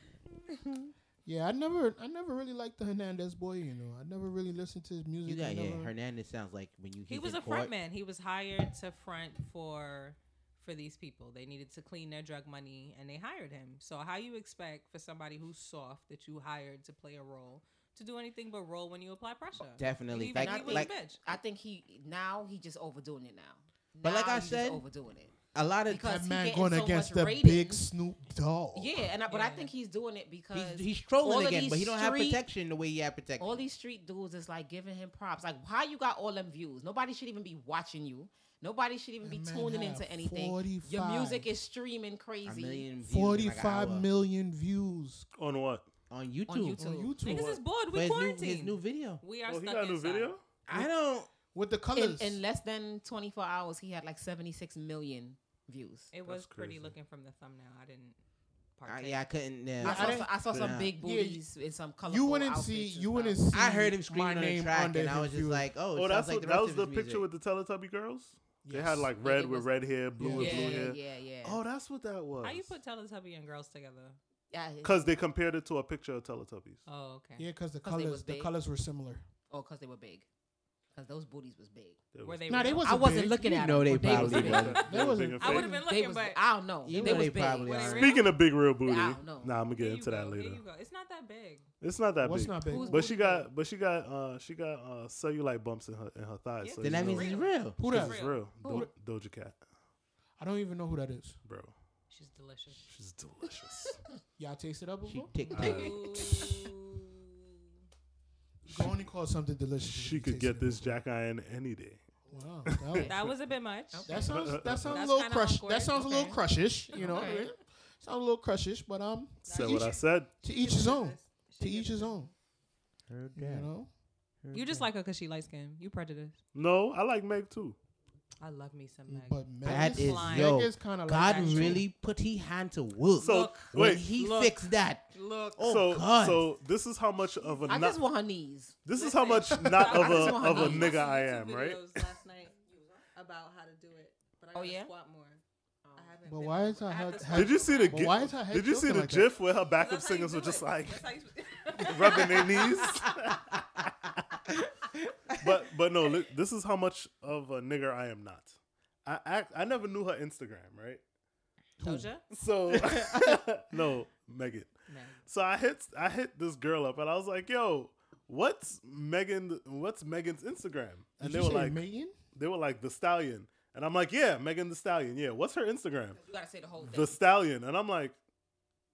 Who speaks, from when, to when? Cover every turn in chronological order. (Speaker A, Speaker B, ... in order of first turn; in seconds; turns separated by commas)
Speaker A: 1.2-5.9, Speaker B: 5.2-7.7, Speaker C: 7.1-21.2, Speaker B: 19.8-20.9, Speaker D: 20.4-25.3, Speaker B: 24.0-24.8, Speaker B: 25.5-26.1, Speaker D: 25.9-27.8, Speaker A: 26.0-28.9, Speaker D: 28.7-32.4, Speaker C: 29.3-29.7, Speaker B: 30.5-33.6, Speaker D: 33.4-42.9, Speaker A: 39.2-41.5, Speaker B: 42.4-44.1, Speaker A: 43.0-45.3, Speaker E: 45.4-45.9, Speaker B: 46.1-46.8, Speaker D: 46.5-47.4, Speaker A: 46.8-47.6, Speaker C: 47.2-50.3, Speaker B: 47.9-49.2, Speaker E: 49.4-50.4, Speaker B: 50.7-51.3, Speaker A: 51.5-52.4, Speaker D: 51.9-56.1, Speaker C: 56.1-58.2, Speaker E: 56.2-56.9, Speaker C: 58.8-59.2, Speaker B: 58.9-60.9, Speaker A: 59.8-61.4, Speaker D: 59.8-63.4, Speaker A: 62.1-65.7, Speaker B: 63.5-67.2, Speaker E: 65.9-72.7, Speaker A: 68.6-69.1, Speaker D: 69.2-69.7, Speaker A: 70.2-70.8, Speaker D: 70.2-71.6, Speaker C: 72.4-74.2, Speaker D: 74.5-75.1, Speaker E: 74.8-76.8, Speaker C: 76.9-77.5, Speaker A: 77.4-79.2, Speaker D: 77.8-78.5, Speaker D: 79.5-80.2, Speaker D: 80.9-82.0, Speaker E: 82.1-82.8, Speaker C: 82.2-83.1, Speaker A: 82.5-85.7, Speaker D: 82.8-84.8, Speaker B: 83.4-84.8, Speaker E: 84.2-85.8, Speaker C: 85.4-86.4, Speaker D: 85.5-88.3, Speaker B: 86.8-88.2, Speaker C: 86.9-88.3, Speaker E: 87.8-90.6, Speaker D: 88.8-89.5, Speaker C: 89.8-91.7, Speaker E: 91.8-99.6, Speaker A: 92.2-93.2, Speaker D: 92.7-93.2, Speaker C: 96.6-98.4, Speaker B: 96.8-97.8, Speaker A: 97.8-98.9, Speaker D: 98.6-98.9, Speaker A: 100.4-101.4, Speaker E: 101.4-101.7, Speaker C: 102.1-102.8, Speaker E: 102.9-104.0, Speaker A: 104.4-105.7, Speaker B: 105.0-106.2, Speaker E: 105.5-106.6, Speaker C: 105.5-107.4, Speaker E: 108.7-109.0, Speaker A: 108.7-111.0, Speaker E: 109.8-112.0, Speaker A: 112.3-113.3, Speaker E: 112.7-113.3, Speaker C: 113.0-114.1, Speaker D: 113.9-114.3, Speaker A: 114.0-122.3, Speaker E: 114.2-115.0, Speaker C: 114.9-116.1, Speaker D: 116.0-116.4, Speaker D: 116.9-117.5, Speaker C: 117.0-117.5, Speaker C: 119.5-122.3, Speaker E: 119.5-120.3, Speaker B: 123.1-123.7, Speaker A: 123.3-123.9, Speaker B: 124.4-124.9, Speaker C: 124.5-126.4, Speaker E: 126.5-127.8, Speaker C: 128.4-130.6, Speaker A: 129.1-131.8, Speaker B: 129.6-136.4, Speaker C: 131.2-131.8, Speaker E: 133.2-134.1, Speaker C: 133.2-134.6, Speaker C: 135.1-135.6, Speaker E: 135.6-138.0, Speaker D: 137.7-138.7, Speaker E: 138.8-142.1, Speaker C: 138.9-145.4, Speaker A: 139.5-140.1, Speaker D: 139.8-141.0, Speaker D: 144.5-144.9, Speaker D: 145.8-146.2, Speaker C: 145.9-148.1, Speaker A: 146.2-149.3, Speaker E: 147.3-151.1, Speaker C: 149.7-153.2, Speaker E: 151.8-154.1, Speaker B: 155.1-155.6, Speaker E: 155.4-161.0, Speaker A: 161.8-162.1, Speaker C: 161.8-162.2, Speaker E: 162.3-164.7, Speaker C: 164.9-165.2, Speaker E: 165.2-176.2, Speaker A: 171.2-172.2, Speaker D: 176.2-177.2, Speaker E: 176.8-178.1